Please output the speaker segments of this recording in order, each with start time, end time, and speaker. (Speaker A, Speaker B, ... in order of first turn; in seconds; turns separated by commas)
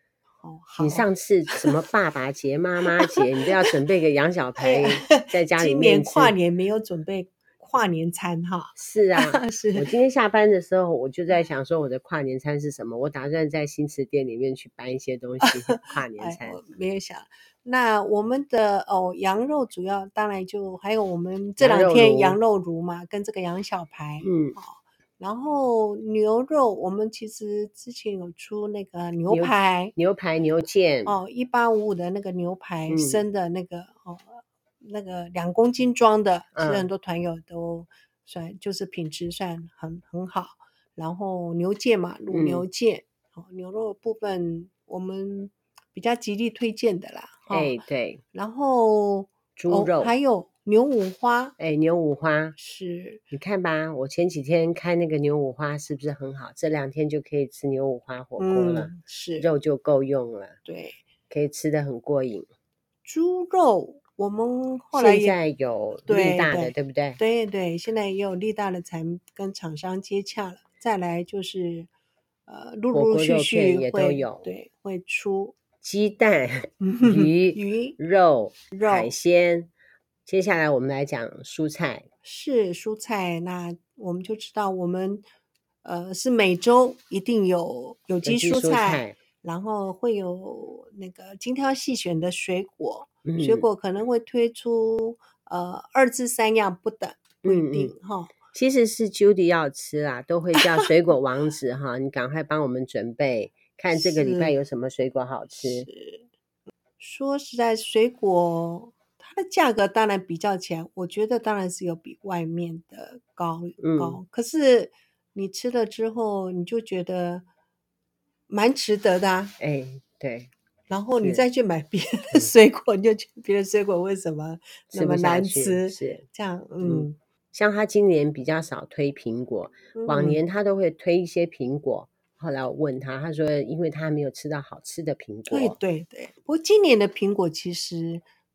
Speaker A: 0.4-1.7, Speaker B: 0.8-6.3, Speaker A: 2.9-3.7, Speaker A: 4.6-9.9, Speaker B: 8.8-16.6, Speaker A: 15.4-29.9, Speaker B: 21.6-22.4, Speaker B: 24.2-24.6, Speaker B: 29.3-31.2, Speaker A: 31.1-47.8, Speaker B: 32.9-33.2, Speaker B: 36.5-36.9, Speaker B: 42.3-42.6, Speaker B: 47.5-48.2, Speaker A: 48.3-51.5, Speaker B: 49.6-50.1, Speaker B: 51.6-52.6, Speaker A: 52.6-53.2, Speaker B: 53.3-60.6, Speaker A: 58.4-59.5, Speaker A: 60.7-61.0, Speaker B: 61.3-62.5, Speaker A: 63.0-65.4, Speaker B: 64.9-67.2, Speaker A: 66.1-71.9, Speaker A: 72.5-75.5, Speaker B: 72.9-74.5, Speaker B: 75.8-79.7, Speaker A: 76.8-78.0, Speaker A: 78.7-79.1, Speaker B: 80.3-82.1, Speaker A: 82.2-85.2, Speaker A: 85.8-98.3, Speaker B: 88.2-89.2, Speaker B: 93.2-93.7, Speaker B: 97.4-97.9, Speaker B: 98.5-105.9, Speaker A: 100.6-100.8, Speaker A: 103.9-104.5, Speaker A: 105.5-106.3, Speaker A: 107.0-117.5, Speaker B: 113.8-114.2, Speaker A: 118.5-119.6, Speaker B: 119.6-120.5, Speaker A: 120.9-127.2, Speaker B: 124.9-126.2, Speaker B: 126.8-135.8, Speaker A: 129.9-130.4, Speaker A: 135.5-138.2